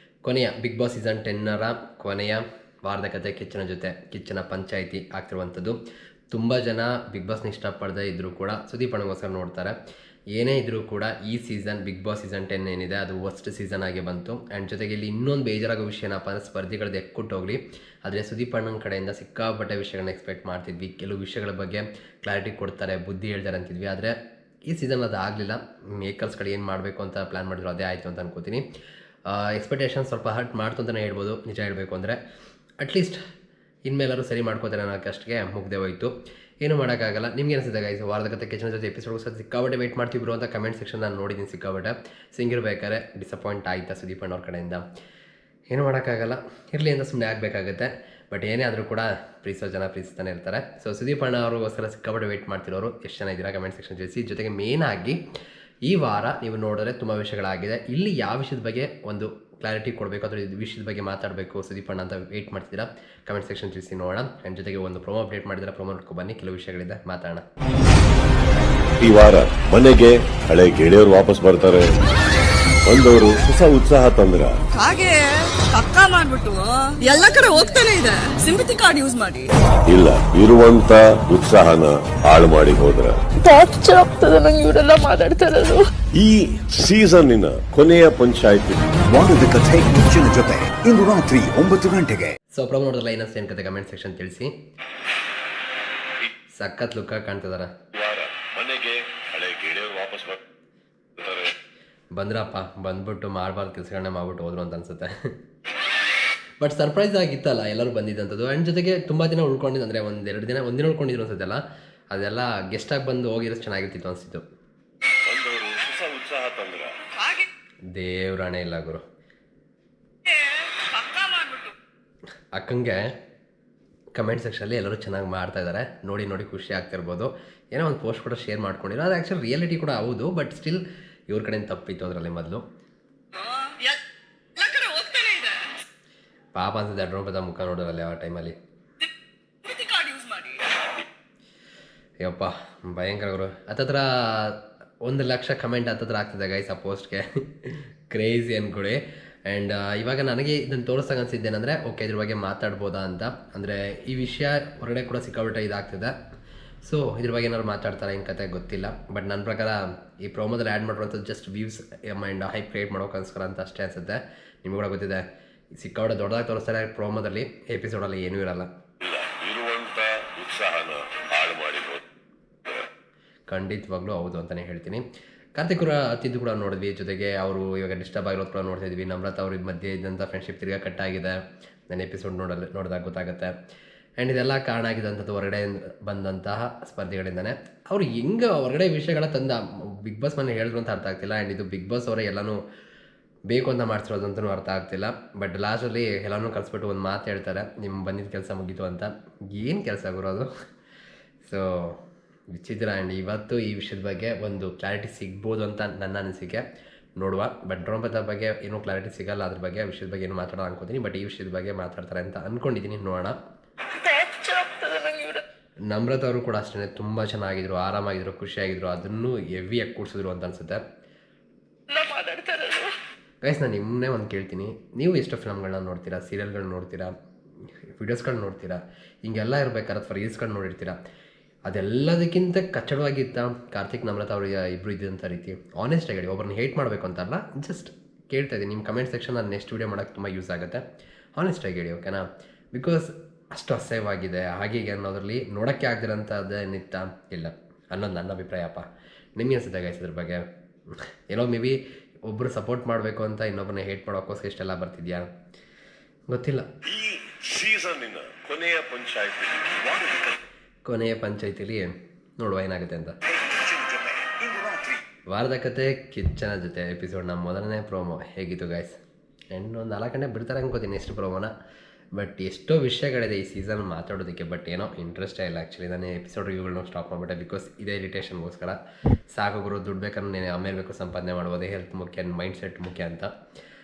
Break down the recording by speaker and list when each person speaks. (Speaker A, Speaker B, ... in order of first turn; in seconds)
Speaker A: 0.2-5.8, 6.3-9.7, 10.3-24.1, 24.7-28.6, 29.3-32.2, 32.8-33.2, 33.9-44.8, 45.7-55.2, 55.9-67.4, 92.5-94.5, 96.6-97.7, 102.1-105.1, 106.6-114.4, 117.9-119.0, 122.5-123.1, 124.2-132.6, 136.6-138.6, 142.2-156.1, 156.8-168.7, 173.5-175.0, 175.6-181.4, 181.9-183.6, 184.2-192.6, 193.5-200.5, 201.4-202.0, 202.5-206.6, 207.2-213.4, 215.9-220.8, 223.4-227.1, 227.9-231.0, 231.7-240.8, 241.4-248.8, 249.4-255.3, 256.3-256.7, 260.9-263.2, 265.3-269.0, 269.5-271.5, 272.2-278.8, 279.3-283.3
Speaker B: 69.0-72.0, 72.8-74.6, 79.9-83.2, 86.1-89.0, 98.0-100.4, 101.2-101.5, 115.1-117.0, 169.0-172.0, 256.8-259.8
Speaker C: 74.7-79.5, 117.2-117.5, 120.3-121.7, 133.3-134.0, 134.6-135.7, 139.6-140.7
Speaker D: 83.4-85.9, 214.0-215.4, 221.9-222.9
Speaker E: 89.1-92.4, 259.8-260.4, 263.3-265.0